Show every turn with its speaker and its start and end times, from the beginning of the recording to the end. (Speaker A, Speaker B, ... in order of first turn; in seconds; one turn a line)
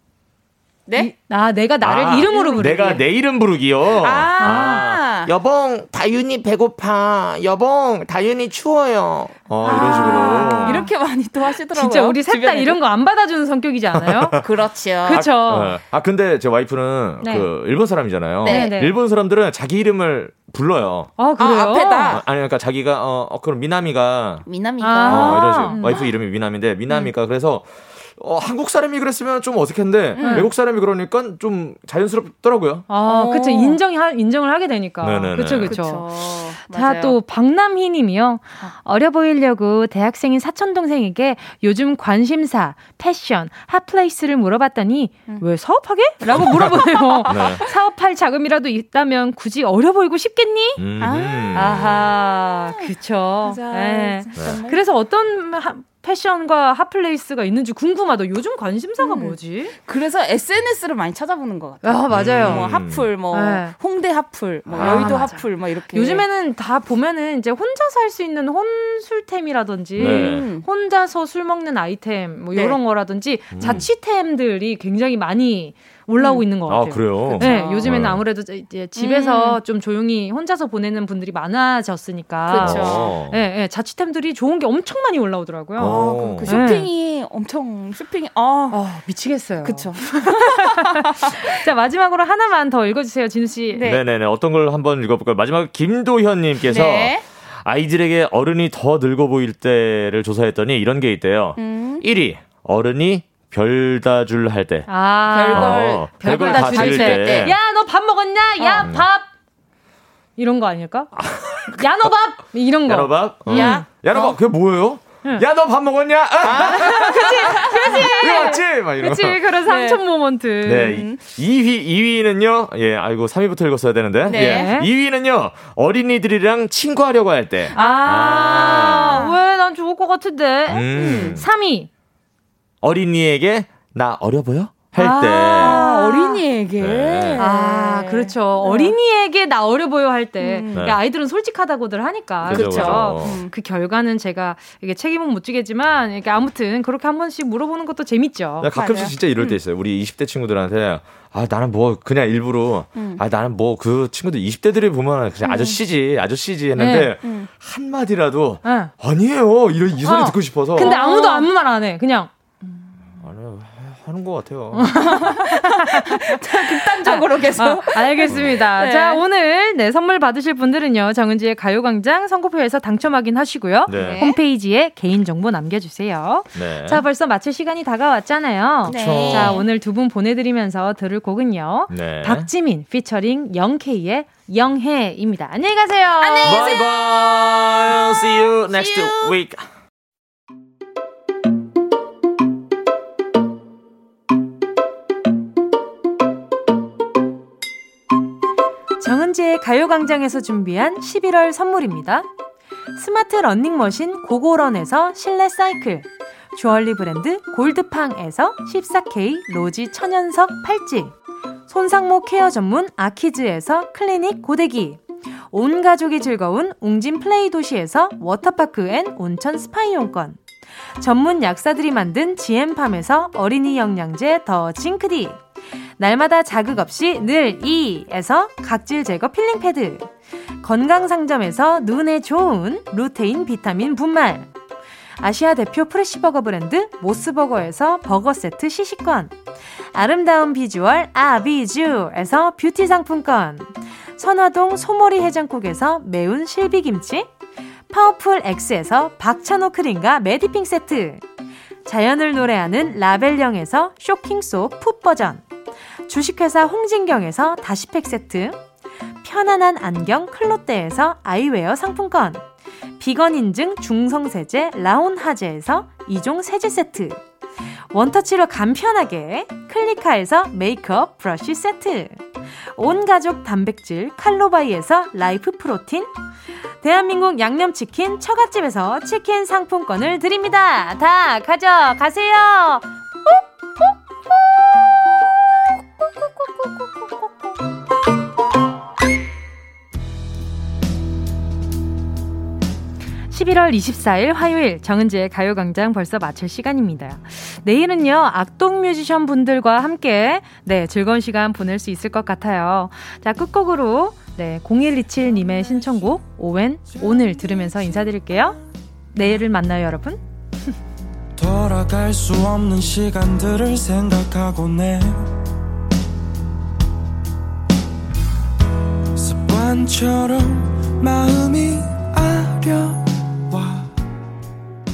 Speaker A: 0.9-1.1
Speaker B: 0.9-3.0
Speaker C: 1.8-5.5
Speaker A: 2.2-3.0
Speaker A: 3.9-5.3
Speaker B: 4.4-4.8
Speaker D: 5.4-9.4
Speaker C: 9.5-10.9
Speaker A: 9.6-12.8
Speaker B: 9.7-10.9
Speaker B: 11.7-14.4
Speaker C: 13.9-14.6
Speaker A: 14.4-15.3
Speaker B: 15.0-15.8
Speaker C: 15.1-21.2
Speaker B: 17.2-17.5
Speaker A: 18.4-18.9
Speaker B: 18.4-18.9
Speaker B: 21.2-22.2
Speaker A: 21.4-22.2
Speaker C: 22.1-24.4
Speaker A: 24.4-26.1
Speaker B: 24.8-25.8
Speaker C: 25.1-32.9
Speaker A: 30.1-30.5
Speaker B: 30.2-30.5
Speaker B: 32.9-50.8
Speaker A: 32.9-33.8
Speaker C: 35.0-35.7
Speaker A: 35.4-37.2
Speaker A: 46.3-47.6
Speaker C: 46.4-47.6
Speaker C: 50.8-52.1
Speaker A: 51.0-52.1
Speaker B: 51.5-59.7
Speaker A: 52.8-54.8
Speaker C: 54.4-54.6
Speaker A: 59.0-66.2
Speaker B: 61.8-62.7
Speaker C: 62.1-63.2
Speaker B: 63.3-63.7
Speaker C: 64.7-65.2
Speaker B: 64.8-86.9
Speaker A: 70.0-70.7
Speaker C: 70.0-70.5
Speaker A: 72.5-72.8
Speaker C: 73.5-73.9
Speaker A: 76.2-76.6
Speaker C: 76.6-78.2
Speaker A: 77.2-78.2
Speaker A: 79.0-79.6
Speaker A: 82.5-83.2
Speaker C: 82.6-83.4
Speaker C: 85.8-86.6
Speaker A: 85.8-88.8
Speaker B: 88.7-93.8
Speaker A: 89.6-91.3
Speaker A: 93.7-94.0
Speaker C: 93.8-104.9
Speaker A: 96.6-97.2
Speaker A: 101.6-102.0
Speaker B: 104.9-109.3
Speaker A: 105.2-107.6
Speaker C: 105.5-107.5
Speaker A: 108.6-109.0
Speaker C: 108.8-109.1
Speaker B: 110.4-111.1
Speaker C: 111.1-112.1
Speaker B: 111.7-113.8
Speaker C: 112.8-119.5
Speaker A: 113.4-114.4
Speaker A: 116.4-118.6
Speaker B: 116.6-121.0
Speaker A: 119.6-120.0
Speaker C: 120.6-129.2
Speaker A: 120.7-121.2
Speaker A: 124.2-124.8
Speaker B: 124.3-124.9
Speaker A: 127.7-128.2
Speaker B: 127.7-131.9
Speaker A: 129.1-129.3
Speaker C: 130.7-131.4
Speaker A: 130.9-131.4
Speaker C: 132.8-135.8
Speaker B: 135.0-136.4
Speaker A: 135.4-138.9
Speaker C: 136.8-137.4
Speaker B: 137.4-149.1
Speaker A: 140.4-141.0
Speaker C: 140.7-141.0
Speaker C: 142.4-143.4
Speaker A: 142.5-143.5
Speaker C: 148.6-161.0
Speaker A: 148.7-149.6
Speaker A: 152.9-153.2
Speaker A: 155.4-155.8
Speaker B: 156.8-157.1
Speaker A: 157.2-157.5
Speaker B: 158.6-158.9
Speaker B: 160.0-162.3
Speaker A: 160.7-161.5
Speaker C: 163.0-165.2
Speaker B: 164.7-186.6
Speaker A: 164.9-169.2
Speaker C: 168.3-168.6
Speaker C: 173.9-174.2
Speaker A: 173.9-174.4
Speaker C: 176.5-177.0
Speaker A: 178.8-179.7
Speaker C: 178.9-179.6
Speaker C: 181.9-182.5
Speaker A: 186.2-189.4
Speaker C: 186.4-189.6
Speaker B: 199.0-202.3
Speaker B: 202.9-211.1
Speaker B: 211.7-215.0
Speaker B: 215.5-220.4
Speaker B: 221.0-225.4
Speaker B: 226.0-230.1
Speaker B: 230.6-234.5
Speaker B: 235.2-239.3
Speaker B: 239.9-247.3
Speaker B: 247.9-251.2
Speaker B: 251.8-255.4
Speaker B: 256.1-258.6
Speaker B: 259.2-262.4
Speaker B: 263.0-267.1
Speaker B: 267.9-272.2
Speaker B: 272.7-276.1
Speaker B: 276.8-283.8
Speaker B: 286.0-287.1
Speaker B: 293.3-308.6
Speaker B: 309.1-310.2
Speaker E: 311.4-315.3
Speaker E: 319.1-323.9